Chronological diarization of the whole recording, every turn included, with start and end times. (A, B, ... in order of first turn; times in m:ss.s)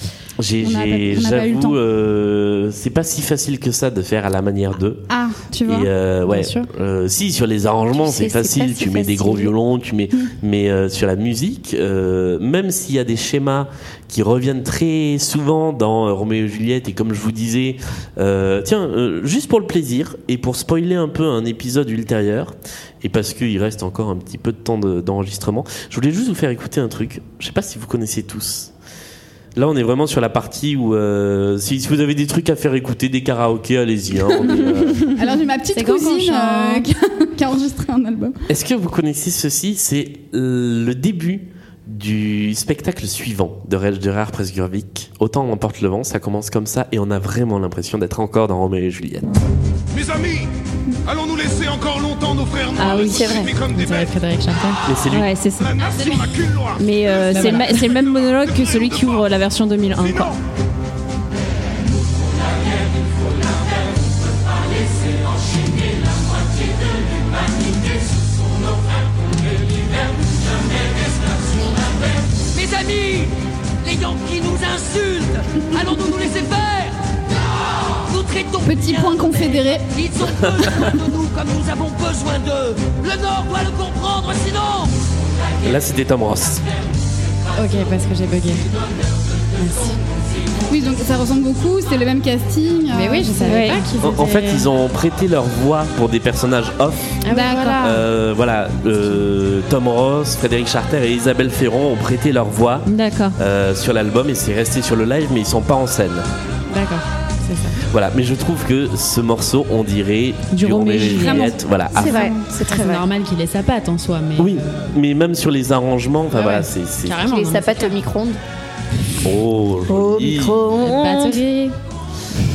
0:00.4-0:05.0 A
0:00.6-0:01.8 B
0:05.1-0:05.9 B
0:05.6-0:28.7 A
0:06.2-0:06.7 C
0:08.2-0:09.2 D
0:29.6-0:35.1 A
0:35.1-0:38.4 B
0:35.7-0:36.8 C
0:38.5-0:49.3 A
0:49.9-0:50.4 E
0:51.1-0:54.1 E
0:52.8-0:53.4 F
0:53.0-0:53.5 D
0:53.3-0:54.8 C
0:54.8-0:55.3 A
0:55.1-0:55.8 F
0:55.7-0:59.2 E
0:56.8-1:00.4 F
0:57.3-0:57.7 C
1:12.5-1:13.3 G
1:13.8-1:16.9 G
1:18.0-1:24.9 G
1:18.6-1:19.9 B
1:25.6-1:26.6 A
1:27.6-1:28.6 C
1:29.6-1:30.0 C
1:30.7-1:33.6 B
1:32.9-1:34.7 C
1:33.4-1:33.8 F
1:34.0-1:37.2 A
1:37.2-1:38.0 C
1:37.3-1:37.8 B
1:37.8-1:46.3 A
1:42.8-1:43.4 F
1:46.7-1:47.8 C
1:47.9-1:52.1 A
1:50.5-1:51.5 F
1:51.0-1:52.4 B
1:51.9-1:53.0 D
1:52.0-1:54.8 C
1:54.4-1:57.2 A
1:56.3-1:58.0 C
1:57.2-1:58.4 D
1:59.2-2:00.7 A
1:59.9-2:01.4 D
2:00.8-2:01.8 C